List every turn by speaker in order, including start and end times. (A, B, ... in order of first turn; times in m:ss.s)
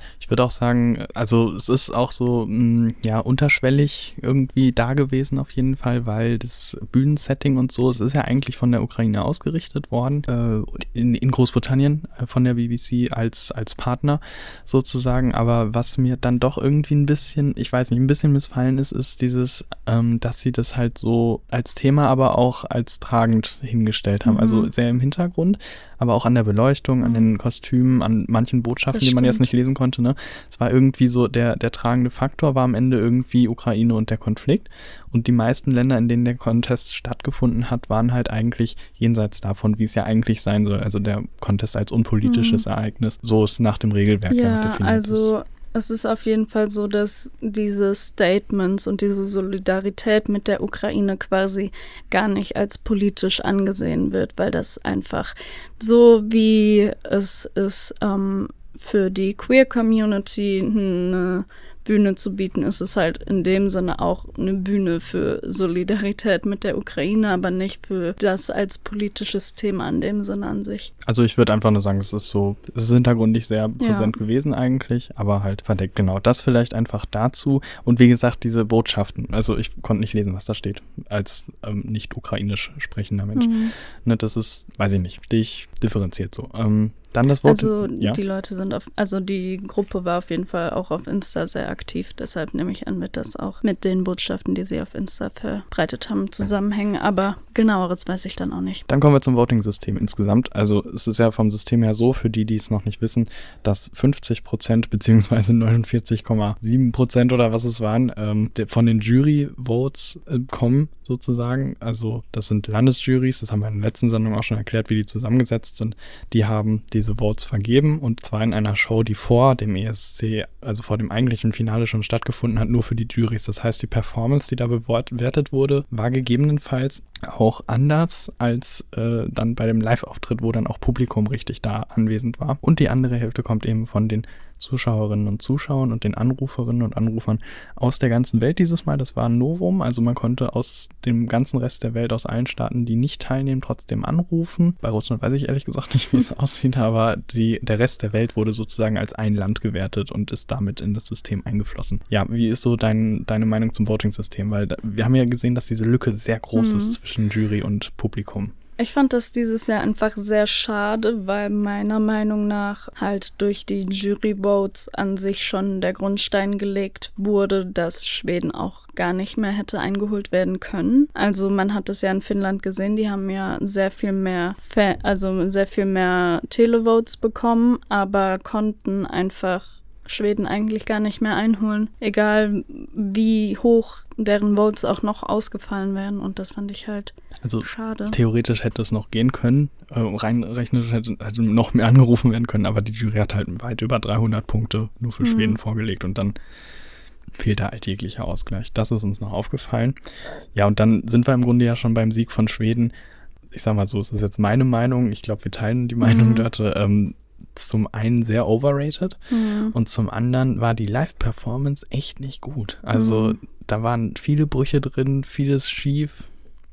0:00.2-0:45.3 A
0:24.2-0:24.7 B
0:27.0-0:27.3 B
0:28.9-0:29.5 B
0:42.2-0:42.6 B
0:44.3-1:10.9 B
1:11.0-1:28.2 A
1:13.8-1:14.1 B
1:23.3-1:23.7 B
1:27.4-1:38.8 B
1:38.9-2:38.5 A
2:36.5-2:37.0 B
2:38.8-3:08.2 B
3:07.4-3:16.3 A
3:15.2-3:15.6 B
3:17.3-3:20.0 A
3:20.5-3:22.9 A
3:23.5-3:29.2 A
3:26.0-3:26.4 B
3:29.3-3:29.7 B
3:29.7-3:36.3 A
3:32.9-3:33.4 B